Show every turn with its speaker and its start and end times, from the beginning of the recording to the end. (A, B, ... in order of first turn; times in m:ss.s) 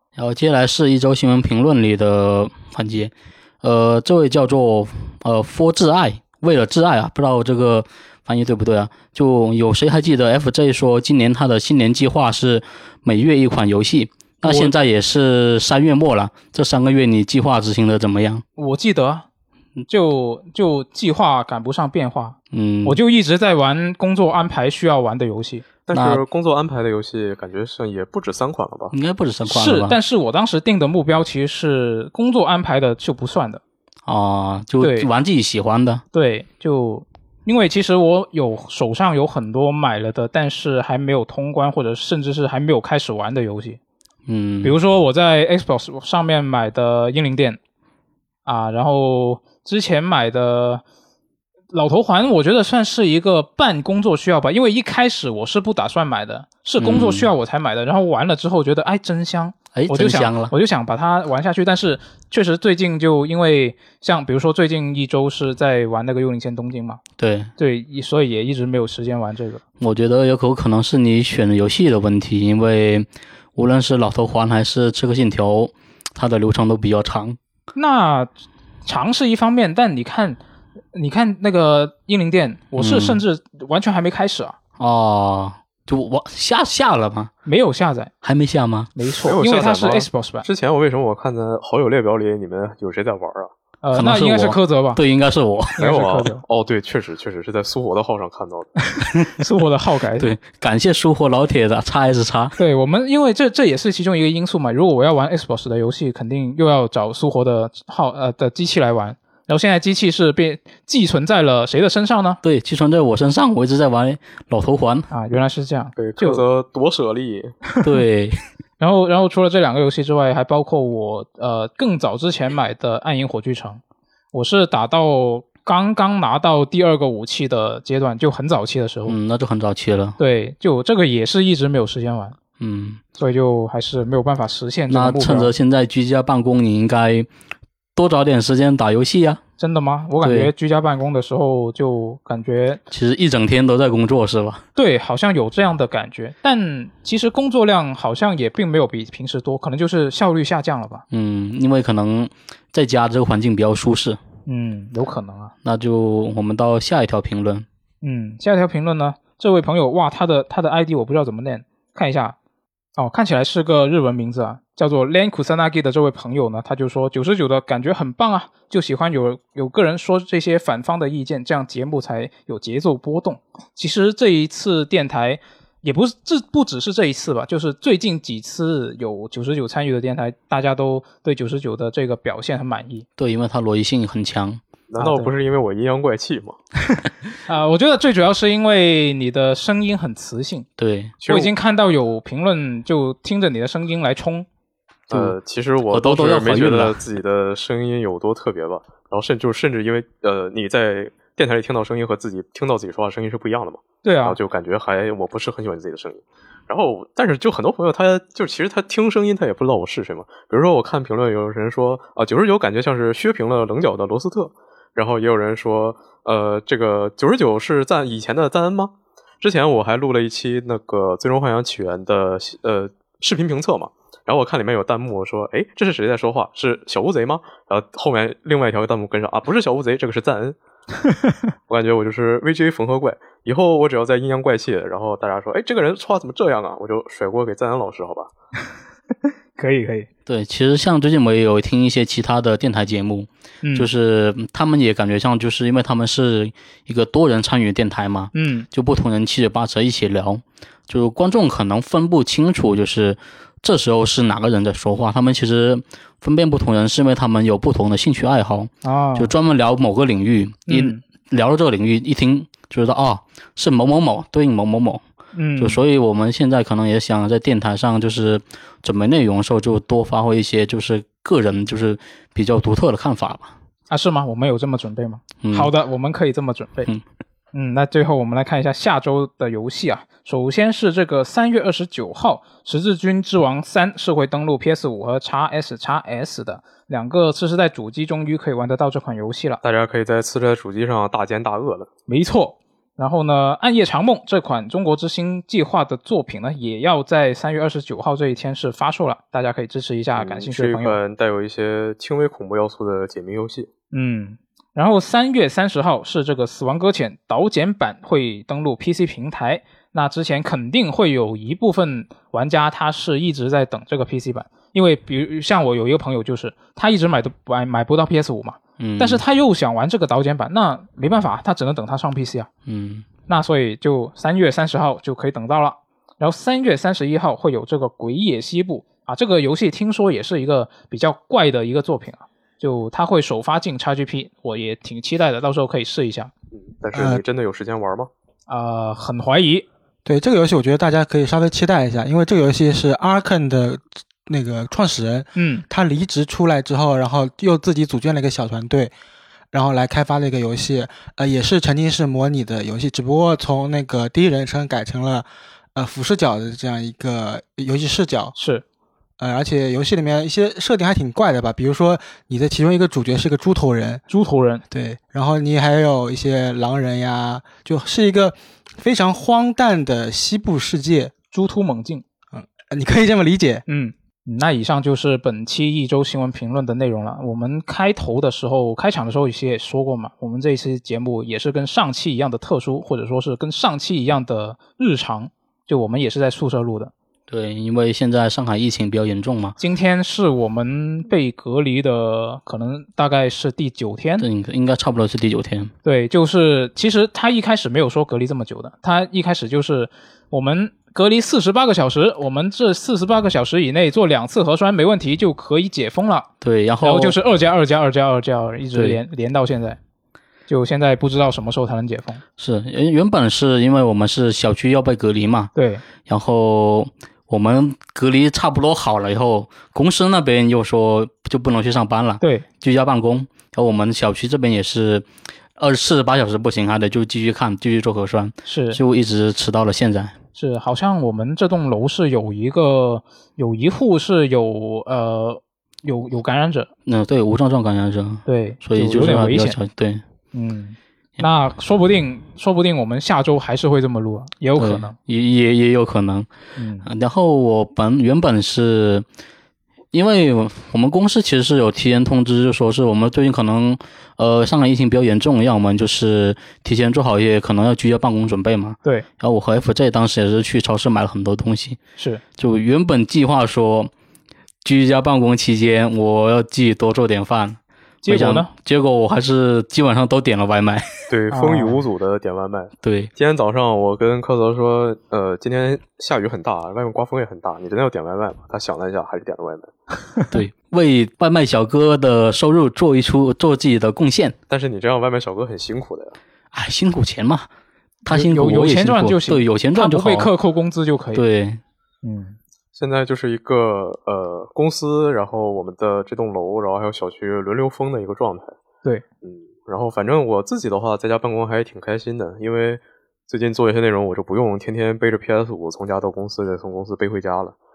0:00.2-0:18.4 A
0:14.4-0:14.7 B
0:18.6-0:19.3 B
0:19.9-0:25.6 B
0:22.5-0:23.0 A
0:25.9-0:28.9 C
0:25.9-0:26.2 A
0:28.9-0:30.0 A
0:29.5-0:33.6 B
0:34.1-0:36.0 A
0:34.8-0:35.1 B
0:36.1-0:43.8 B
0:44.3-0:44.8 A
0:44.6-0:47.6 B
0:48.5-0:50.8 B
0:51.7-1:07.0 B
0:56.8-0:57.3 A
0:59.7-1:00.5 A
1:07.2-1:07.5 A
1:07.6-1:09.6 B
1:09.8-1:17.4 A
1:17.8-1:18.3 B
1:18.8-1:20.4 B
1:20.9-1:24.6 B
1:22.8-1:23.2 A
1:24.8-1:27.3 A
1:27.5-1:28.1 B
1:28.2-1:28.9 A
1:29.0-1:30.5 B
1:29.2-1:33.5 C
1:33.8-1:35.0 B
1:33.9-1:35.8 A
1:35.8-1:36.4 B
1:35.8-1:38.7 C
1:39.0-1:40.3 B
1:40.2-1:42.6 A
1:42.6-1:52.4 B
1:52.4-1:55.1 A
1:55.1-1:56.4 B
1:56.0-1:57.6 C
1:57.8-1:58.4 A
1:58.8-2:03.8 B
2:04.3-2:09.2 B
2:09.1-2:10.2 A
2:10.2-2:12.4 B
2:12.6-2:13.0 A
2:13.2-2:15.5 B
2:14.9-2:17.3 A
2:18.0-2:19.4 A
2:19.6-2:22.8 B
2:20.2-2:20.5 A
2:22.9-2:24.6 A
2:24.8-2:31.0 B
2:31.1-2:34.2 A
2:34.5-2:35.5 B
2:35.6-2:37.7 A
2:38.0-2:42.4 B
2:43.0-3:03.1 B
3:03.2-3:04.6 A
3:04.9-3:06.6 C
3:05.0-3:05.3 B
3:07.4-3:10.7 B
3:10.8-3:11.2 A
3:11.2-3:11.5 C
3:11.3-3:14.5 B
3:15.1-3:50.6 C
3:15.9-3:17.0 A
3:24.0-3:24.4 B
3:51.0-3:51.4 B
3:51.7-3:58.3 C
3:59.6-4:00.1 B
4:00.3-4:25.0 A
4:03.6-4:03.9 B
4:08.3-4:08.7 B
4:18.8-4:19.3 B
4:20.7-4:21.0 B
4:25.3-4:25.8 B
4:25.6-4:33.5 A
4:33.9-4:36.9 B
4:35.4-4:35.7 A
4:37.5-4:49.6 B
4:49.6-4:51.9 C
4:52.1-5:01.0 B
5:00.2-5:03.7 C
5:03.9-5:22.5 B
5:18.8-5:19.2 A
5:22.7-5:23.1 A
5:23.3-5:36.3 B
5:36.5-5:38.1 C
5:36.9-5:37.2 D
5:38.5-5:39.7 B
5:40.0-5:48.9 D
5:45.4-5:45.6 B
5:49.5-5:58.3 D
5:58.4-5:58.6 B
5:59.2-6:04.0 D
6:04.1-6:04.6 B
6:04.7-6:11.1 D
6:11.3-6:12.0 B
6:12.3-6:13.6 D
6:13.7-6:26.9 B
6:27.3-6:29.6 A
6:29.6-6:34.2 B
6:34.2-6:35.7 A
6:35.8-6:46.3 B
6:46.4-6:47.2 A
6:46.8-6:49.8 B
6:50.5-6:52.2 B
6:52.4-6:55.5 A
6:55.6-6:55.8 B
6:56.1-7:10.2 A
7:02.2-7:02.5 B
7:08.5-7:08.8 B
7:10.4-7:16.7 B
7:16.9-7:20.0 A
7:18.3-7:19.6 B
7:20.3-7:25.0 B
7:24.6-7:26.3 A
7:26.6-7:26.9 B
7:26.8-7:29.0 A
7:29.9-7:41.8 A
7:42.4-7:43.9 A
7:44.6-7:50.9 A
7:48.0-7:48.5 B
7:51.1-7:59.7 C
7:51.3-7:51.8 B
7:52.8-7:53.1 A
8:00.3-8:04.4 A
8:04.5-8:06.2 C
8:06.5-8:07.5 A
8:08.1-8:10.3 A
8:08.1-8:11.2 B
8:11.2-8:11.6 A
8:12.0-8:12.4 B
8:12.8-8:18.6 C
8:19.2-8:27.6 C